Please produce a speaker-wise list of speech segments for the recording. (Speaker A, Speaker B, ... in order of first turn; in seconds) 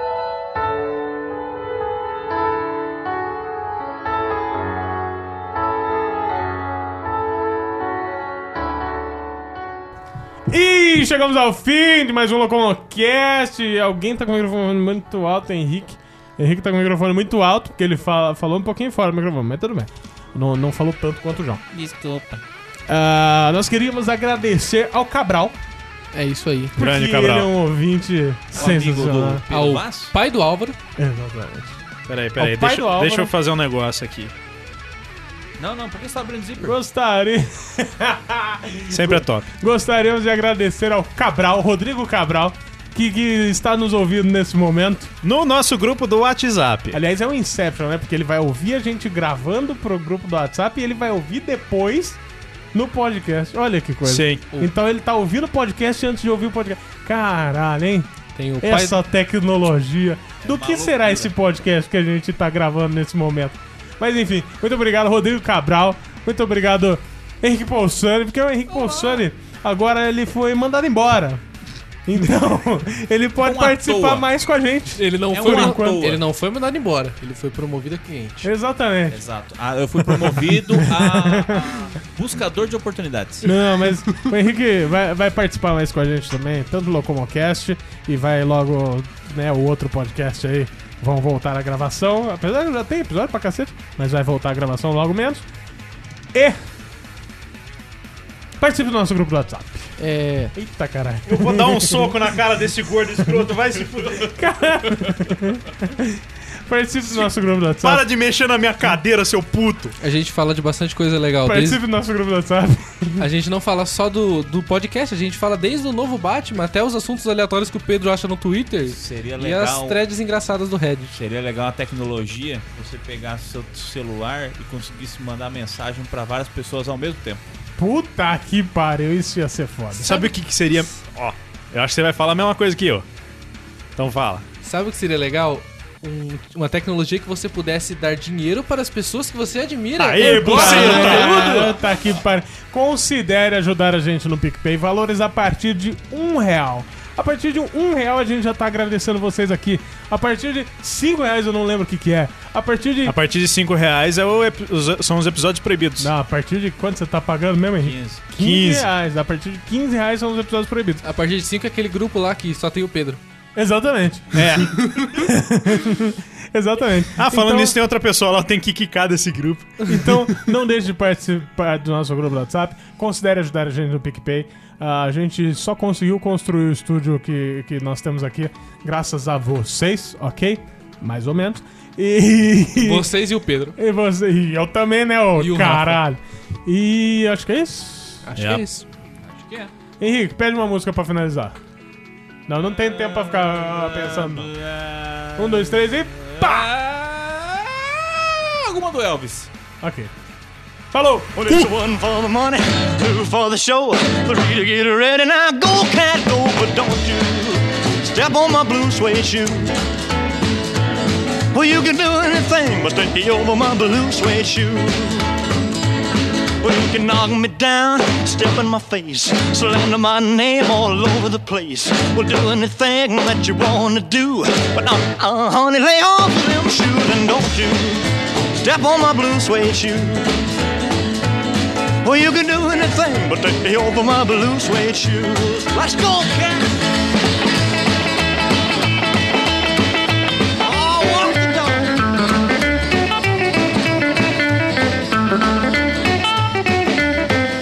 Speaker A: 10.5-21.6, 22.9-25.6, 26.8-29.4, 31.0-31.8, 32.4-33.3, 36.6-45.1, 46.9-52.2, 52.7-71.4, 72.1-76.1, 78.4-79.2, 80.4-81.8, 83.4-95.4, 96.3-96.6, 98.6-100.0, 100.5-102.2, 104.3-108.0, 111.4-113.3, 127.8-130.3, 140.4-153.2, 156.0-161.0, 163.6-167.8, 169.9-183.1, 183.8-188.2, 190.0-191.6, 192.5-194.5, 195.3-196.7, 199.8-200.1, 200.9-201.6
Speaker B: 21.7-22.4, 28.5-30.1, 35.6-36.8, 60.4-61.3, 73.4-74.3, 75.3-76.2, 79.1-83.5, 118.9-120.0, 121.1-127.4, 140.2-141.7, 157.8-158.2, 189.2-189.7, 192.8-199.5
Speaker C: 26.1-26.7, 29.5-30.8, 58.3-59.0, 75.0-78.5, 100.0-100.5, 110.0-111.8, 113.2-121.1, 134.6-141.7, 161.0-163.2, 182.8-183.8, 185.4-186.0, 188.2-188.8
Speaker D: 26.8-27.5, 32.1-34.3, 38.9-39.5, 45.2-47.0, 54.0-54.4, 101.3-104.4, 107.8-110.0, 129.9-133.0, 133.9-134.4, 140.0-141.7, 153.0-156.1, 158.3-158.9, 164.3-164.9, 167.2-170.1, 188.3-188.8
Speaker E: 201.3-209.8, 211.5-215.4, 216.6-230.4, 232.0-236.7, 240.6-242.0